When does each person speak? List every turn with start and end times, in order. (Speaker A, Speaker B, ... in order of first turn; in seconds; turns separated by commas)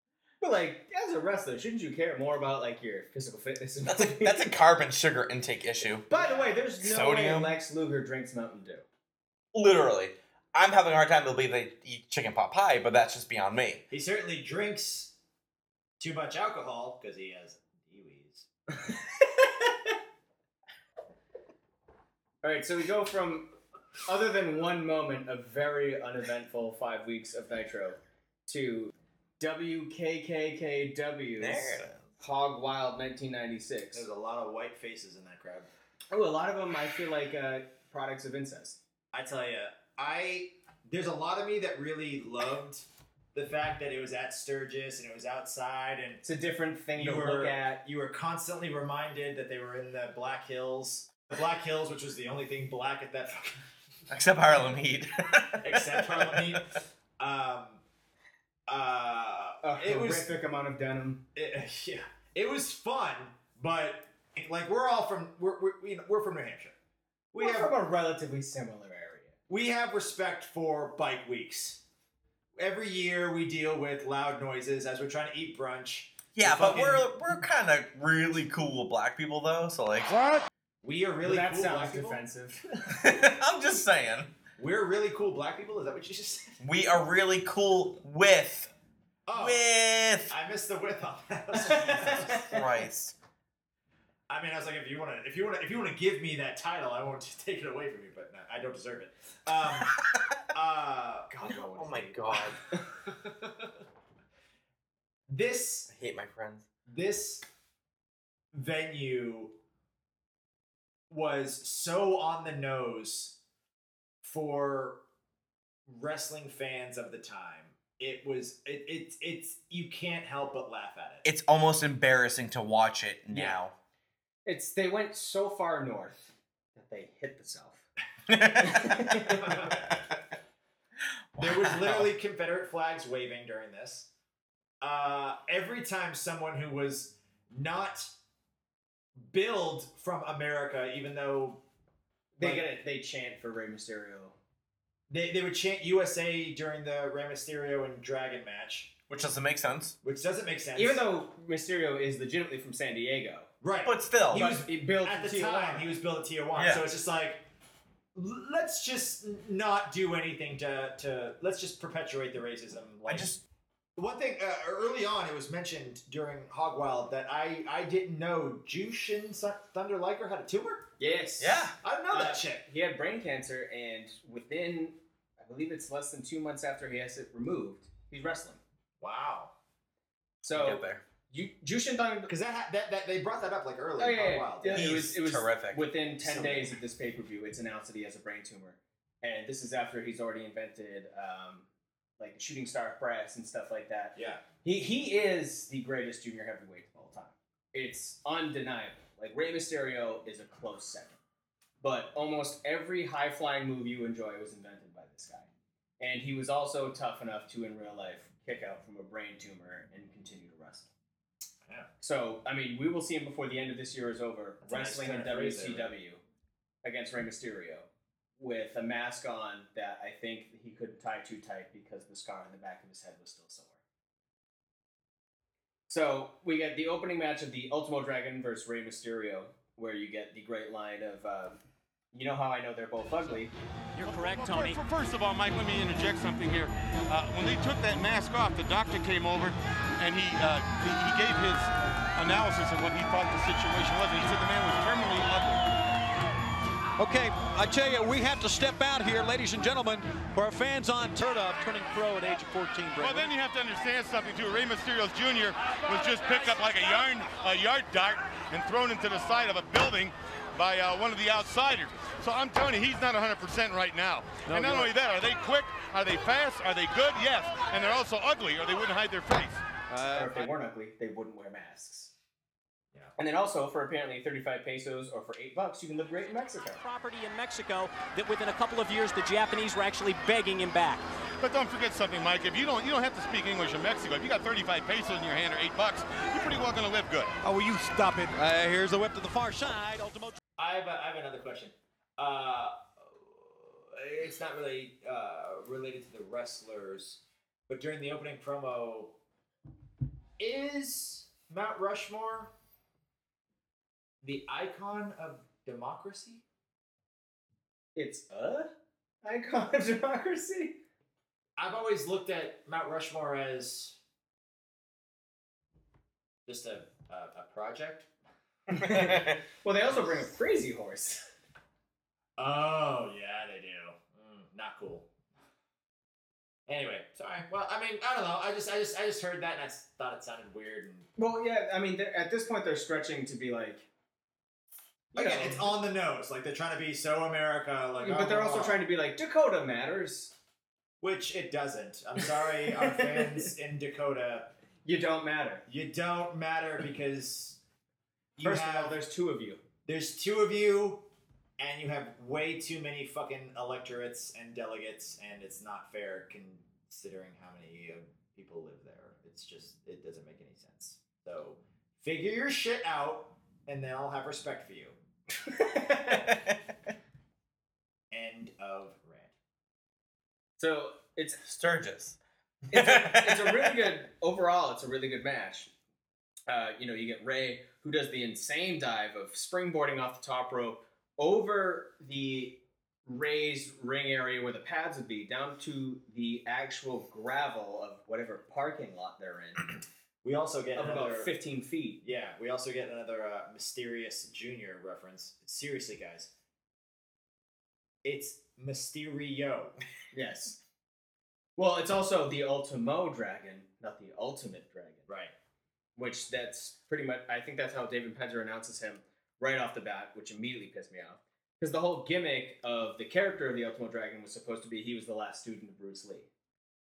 Speaker A: 0.4-4.5, Speaker B: 3.9-6.1, Speaker A: 6.1-8.8, Speaker C: 6.1-6.6, Speaker B: 6.8-7.5, Speaker B: 9.5-13.8, Speaker C: 13.9-15.1, Speaker C: 16.0-18.5, Speaker A: 22.4-23.5, Speaker A: 24.1-34.1, Speaker B: 31.4-32.1, Speaker C: 33.9-35.7, Speaker A: 36.1-38.8, Speaker C: 39.1-46.2, Speaker A: 46.2-47.8, Speaker C: 47.0-53.6, Speaker B: 54.1-56.6, Speaker C: 55.6-57.8, Speaker C: 58.7-60.3, Speaker A: 59.6-61.2, Speaker C: 61.3-66.8, Speaker C: 67.3-67.7, Speaker A: 67.4-69.3, Speaker C: 69.5-71.8, Speaker C: 72.6-77.0, Speaker B: 76.3-80.1, Speaker C: 80.8-82.2, Speaker A: 81.2-82.6, Speaker B: 82.9-84.3, Speaker C: 84.6-86.5, Speaker B: 86.6-88.7, Speaker C: 89.2-89.7, Speaker B: 89.3-90.3, Speaker C: 90.3-92.6, Speaker A: 91.5-92.7, Speaker B: 91.9-93.1, Speaker C: 94.3-99.9, Speaker C: 100.5-101.3, Speaker A: 101.3-102.2, Speaker B: 101.7-102.6, Speaker C: 103.2-103.5, Speaker C: 105.3-105.9, Speaker B: 105.9-106.7, Speaker C: 106.9-107.4, Speaker C: 108.5-109.5, Speaker C: 111.1-113.4, Speaker C: 114.2-115.0, Speaker C: 115.9-121.2, Speaker B: 121.2-123.7, Speaker A: 123.3-123.6, Speaker A: 124.5-127.8, Speaker B: 128.3-129.2, Speaker A: 128.6-129.4, Speaker C: 129.3-130.0, Speaker B: 131.3-132.1, Speaker C: 131.4-134.1, Speaker C: 134.8-138.1, Speaker C: 139.2-141.6, Speaker A: 142.4-144.3, Speaker C: 142.4-142.7, Speaker C: 145.1-148.9, Speaker B: 149.1-149.9, Speaker C: 150.0-151.1, Speaker A: 150.7-153.5, Speaker C: 153.6-157.4, Speaker B: 153.8-154.6, Speaker A: 154.3-155.9, Speaker B: 156.6-156.9, Speaker C: 158.1-163.4, Speaker B: 163.1-163.4, Speaker C: 163.9-170.9, Speaker A: 171.0-178.6, Speaker B: 171.4-171.7, Speaker C: 171.8-172.6, Speaker C: 179.0-179.5, Speaker A: 180.4-182.3, Speaker B: 180.5-181.0, Speaker C: 182.3-185.0, Speaker A: 184.0-191.7, Speaker B: 184.7-185.9, Speaker C: 186.2-186.8, Speaker A: 192.2-201.2, Speaker C: 194.1-194.4, Speaker A: 201.8-205.5, Speaker A: 206.0-210.9, Speaker A: 212.0-216.2, Speaker C: 214.6-215.9, Speaker A: 216.8-217.9, Speaker A: 218.4-223.8, Speaker A: 225.9-231.6, Speaker A: 232.1-233.5, Speaker D: 234.0-234.8, Speaker E: 234.0-245.6, Speaker F: 247.0-253.3, Speaker E: 253.0-269.6, Speaker F: 264.5-264.9, Speaker F: 269.9-270.5, Speaker A: 270.1-272.1, Speaker A: 273.2-276.8, Speaker D: 276.8-281.1, Speaker E: 281.4-287.4, Speaker F: 287.4-290.4, Speaker C: 290.6-299.1, Speaker C: 300.4-302.5, Speaker C: 304.2-306.4, Speaker A: 307.9-308.7, Speaker A: 309.2-310.8, Speaker C: 311.6-314.0, Speaker C: 316.4-318.1, Speaker A: 318.7-321.2, Speaker B: 318.9-319.3, Speaker C: 322.4-325.1, Speaker C: 326.7-331.1, Speaker A: 331.2-333.9, Speaker C: 335.1-338.8, Speaker A: 335.1-335.7, Speaker A: 338.0-340.3, Speaker C: 341.0-344.5, Speaker A: 342.6-343.5, Speaker A: 344.8-345.6, Speaker C: 345.7-347.6, Speaker C: 348.4-348.9, Speaker A: 348.4-349.6, Speaker C: 349.8-351.1, Speaker C: 351.6-365.0, Speaker A: 365.5-366.3, Speaker C: 368.1-369.3, Speaker A: 370.6-371.4, Speaker B: 371.4-372.2, Speaker B: 372.7-373.9, Speaker A: 372.7-375.7, Speaker A: 376.5-389.7, Speaker C: 390.2-391.3, Speaker A: 390.8-392.0, Speaker C: 392.0-396.3, Speaker C: 398.0-399.8, Speaker A: 400.1-400.6, Speaker A: 401.6-405.1, Speaker C: 405.1-405.3, Speaker A: 405.9-416.3